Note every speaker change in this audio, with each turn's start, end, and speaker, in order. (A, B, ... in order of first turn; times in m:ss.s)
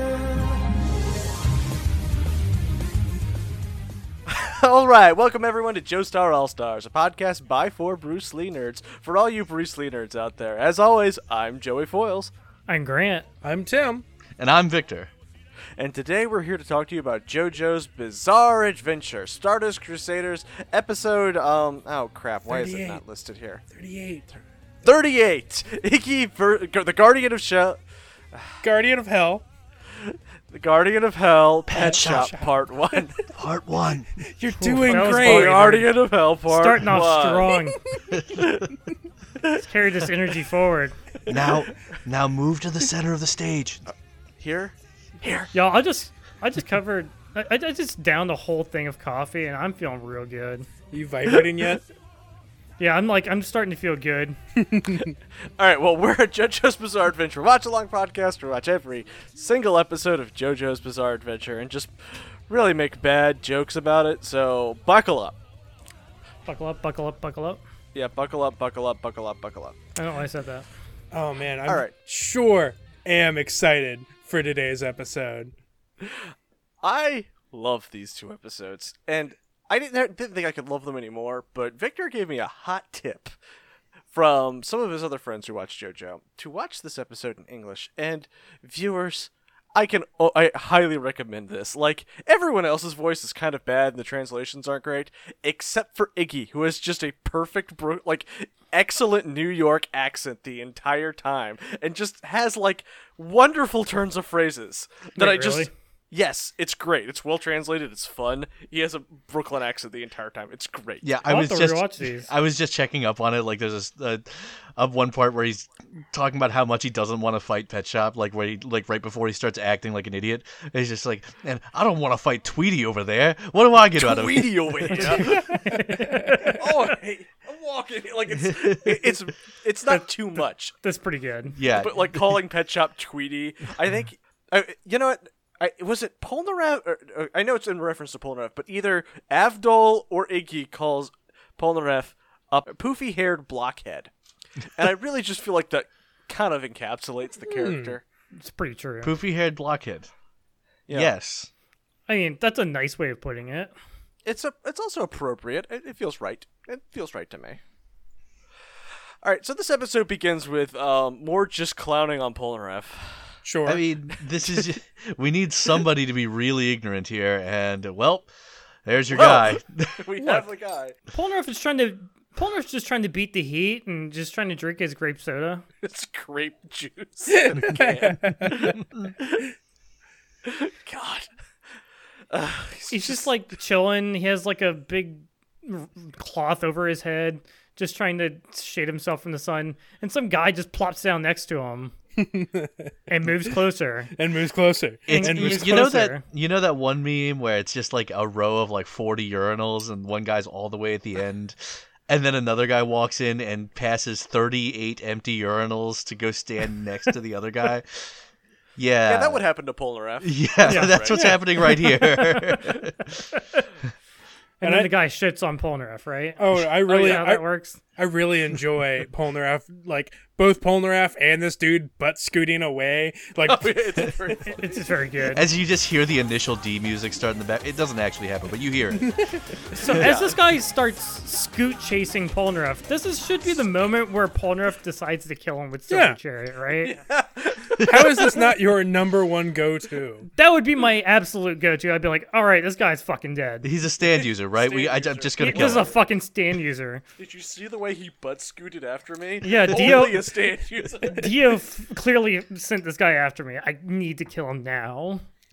0:04.3-0:12.3 A
0:12.7-0:13.2 B
0:13.4-0:14.0 C
0:14.4-0:15.1 D
0:15.8-0:23.6 A
0:22.5-0:23.0 C
0:23.7-0:24.4 C
0:24.8-0:27.8 A
0:28.3-0:28.6 A
0:28.6-0:29.4 C
0:30.0-0:33.3 A
0:31.7-0:32.4 D
0:31.7-0:33.1 C
0:33.3-0:34.1 D
0:34.2-0:35.8 C
0:34.5-0:37.8 B
0:34.8-0:37.6 A
0:38.1-0:38.6 D
0:38.3-0:38.7 A
0:39.5-0:40.9 B
0:41.3-0:43.9 D
0:43.9-0:45.5 A
0:45.5-0:50.7 B
0:50.9-0:51.8 C
0:52.8-0:54.4 B
0:54.6-0:55.1 C
0:54.9-1:05.4 A
1:06.4-1:07.6 B
1:07.9-1:09.8 A
1:10.0-1:10.7 B
1:11.1-1:15.5 C
1:11.6-1:11.9 A
1:16.8-1:23.3 A
1:24.1-1:51.0 A
1:45.2-1:45.7 B
1:51.0-2:05.3 D
1:51.2-1:52.3 B
2:03.9-2:05.4 A
2:04.9-2:06.8 B
2:05.2-2:06.3 C
2:06.4-2:10.7 A
2:08.4-2:09.0 D
2:10.8-2:11.6 B
2:11.6-2:12.4 D
2:11.6-2:24.1 A
2:24.7-2:28.0 A
2:27.5-2:27.9 C
2:28.4-2:29.1 B
2:29.0-2:30.1 D
2:30.9-2:31.5 D
2:32.1-2:33.7 B
2:34.2-2:37.6 A
2:39.2-2:43.4 A
2:43.4-2:43.8 C
2:43.6-2:48.3 D
2:48.8-2:50.5 D
2:49.1-2:51.0 A
2:51.1-2:55.6 B
2:55.8-2:59.5 A
2:57.3-2:58.7 C
3:00.4-3:01.3 A
3:02.3-3:03.3 A
3:02.9-3:11.9 B
3:12.2-3:12.9 C
3:13.1-3:14.1 B
3:14.1-3:15.8 C
3:15.1-3:28.1 D
3:15.1-3:16.2 B
3:28.8-3:29.4 D
3:29.0-3:31.2 A
3:30.2-3:33.2 D
3:30.6-3:31.0 B
3:31.1-3:31.4 C
3:32.0-3:33.6 B
3:34.6-3:37.8 B
3:34.6-3:34.9 C
3:36.4-3:37.4 C
3:36.9-3:37.2 A
3:38.0-3:43.8 C
3:43.4-3:44.8 A
3:44.4-3:45.5 B
3:45.3-3:49.2 D
3:49.0-3:49.4 C
3:49.7-3:57.0 B
3:49.7-3:50.4 A
3:55.9-3:56.2 C
3:56.8-3:58.5 A
3:57.8-3:58.0 D
3:57.8-4:00.3 C
4:00.3-4:03.7 B
4:03.6-4:05.9 D
4:04.5-4:05.9 A
4:05.4-4:07.0 B
4:07.2-4:11.3 A
4:09.4-4:10.3 B
4:11.0-4:15.2 B